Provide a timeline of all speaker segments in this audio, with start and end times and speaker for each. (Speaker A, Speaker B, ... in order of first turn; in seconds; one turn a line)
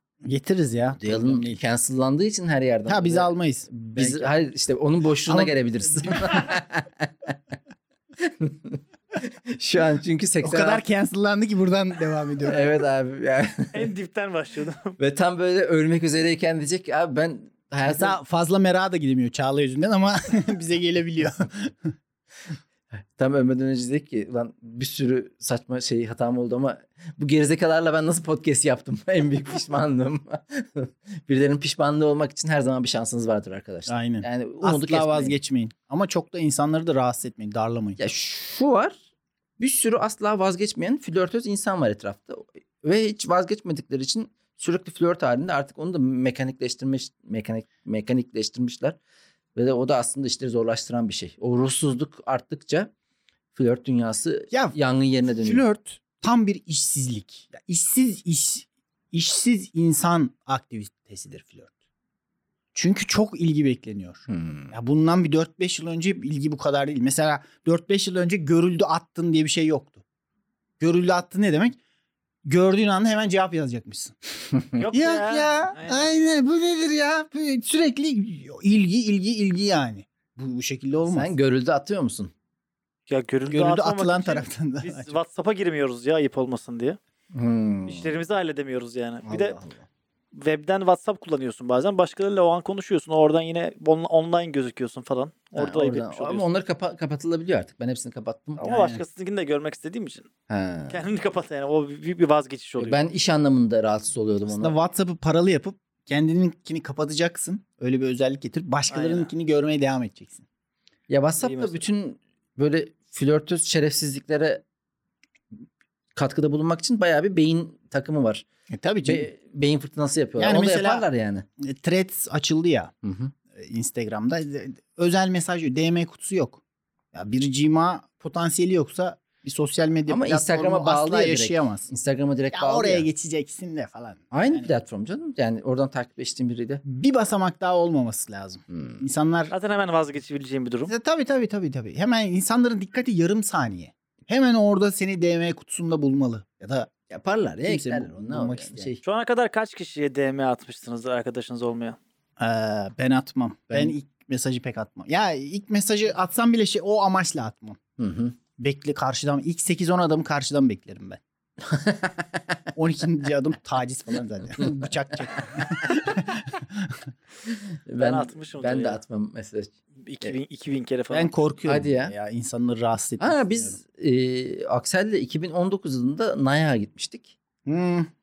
Speaker A: 0.2-1.6
Speaker B: 1.0-7.3
Speaker A: 2.9-4.3
Speaker A: 5.3-6.5
Speaker B: 8.2-10.8
Speaker A: 10.4-12.7
Speaker B: 12.4-13.9
Speaker C: 13.7-15.0
Speaker B: 15.0-18.2
Speaker A: 17.9-21.9
Speaker B: 23.1-35.4
Speaker A: 33.9-38.0
Speaker B: 38.0-39.0
Speaker B: 39.6-49.0
Speaker B: 49.5-52.9
Speaker B: 53.5-55.6
Speaker A: 54.5-54.8
Speaker A: 55.3-61.7
Speaker A: 62.7-70.0
Speaker B: 64.3-64.7
Speaker A: 70.8-71.8
Speaker A: 72.5-74.2
Speaker C: 74.8-76.1
Speaker A: 74.9-81.3
Speaker B: 81.1-82.3
Speaker C: 83.1-87.0
Speaker A: 83.5-85.1
Speaker B: 87.3-88.2
Speaker C: 87.9-89.6
Speaker B: 89.2-89.8
Speaker C: 90.3-96.5
Speaker B: 95.6-98.6
Speaker C: 98.6-100.3
Speaker A: 98.6-99.0
Speaker B: 100.5-101.0
Speaker C: 100.9-103.0
Speaker B: 102.8-104.8
Speaker A: 104.5-110.4
Speaker C: 108.9-109.3
Speaker B: 111.1-114.6
Speaker C: 111.4-111.8
Speaker B: 116.2-118.5
Speaker A: 118.7-119.3
Speaker B: 119.0-121.5
Speaker A: 120.4-121.1
Speaker A: 121.6-122.9
Speaker B: 123.0-123.3
Speaker A: 123.5-126.6
Speaker A: 127.1-131.9
Speaker B: 130.1-133.1
Speaker A: 132.5-134.7
Speaker B: 134.3-136.8
Speaker A: 136.8-139.5
Speaker B: 138.7-139.0
Speaker C: 139.5-140.9
Speaker A: 140.9-146.9
Speaker B: 147.1-149.0
Speaker A: 147.6-148.9
Speaker C: 149.0-152.0
Speaker A: 152.4-157.8
Speaker B: 158.0-158.4
Speaker A: 158.6-161.2
Speaker B: 161.7-162.3
Speaker A: 162.7-167.0
Speaker B: 167.5-170.4
Speaker C: 168.0-169.0
Speaker C: 170.0-171.3
Speaker A: 171.1-173.8
Speaker B: 171.7-172.1
Speaker B: 173.2-177.3
Speaker A: 177.7-178.1